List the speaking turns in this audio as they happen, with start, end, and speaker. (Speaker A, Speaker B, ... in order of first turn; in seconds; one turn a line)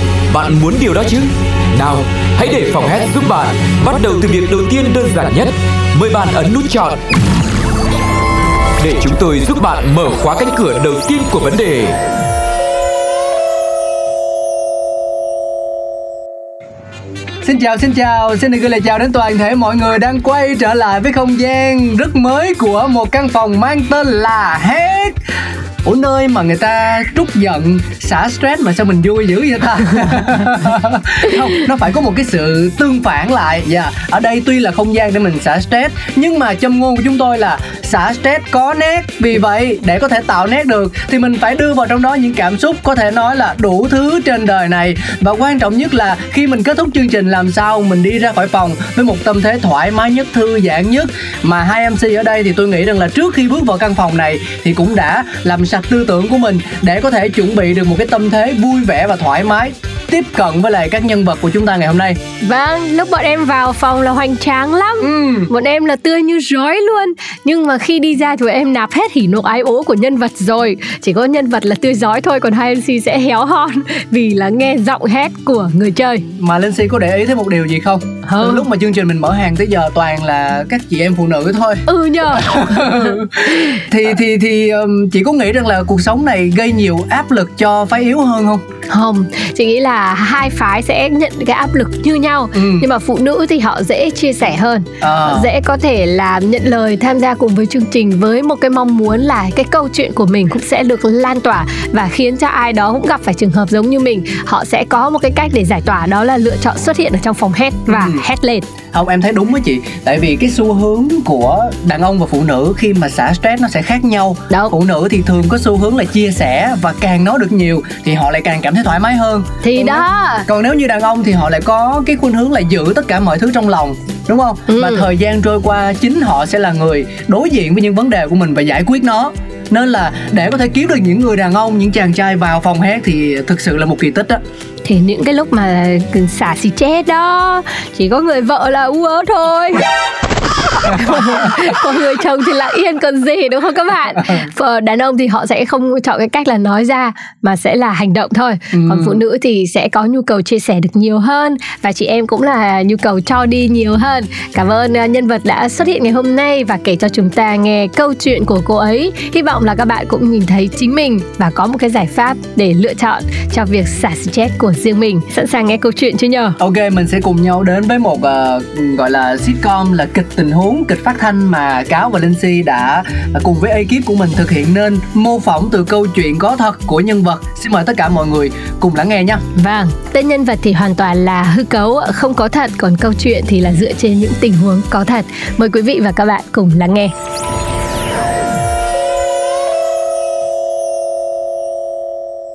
Speaker A: 0.3-7.0
Speaker A: 8.8-11.9
Speaker B: 17.4-25.2
Speaker B: 25.8-62.2
Speaker C: 62.4-76.2
Speaker B: 65.0-65.5
Speaker B: 76.4-88.6
Speaker C: 78.2-78.6
Speaker C: 81.9-83.8
Speaker C: 88.9-108.7
Speaker B: 92.5-92.9
Speaker B: 95.0-95.5
Speaker B: 107.9-108.2
Speaker B: 108.9-134.4
Speaker C: 119.6-120.5
Speaker C: 124.7-125.0
Speaker C: 134.8-139.8
Speaker C: 140.8-166.6
Speaker B: 148.7-149.2
Speaker B: 166.6-179.4
Speaker C: 179.5-187.1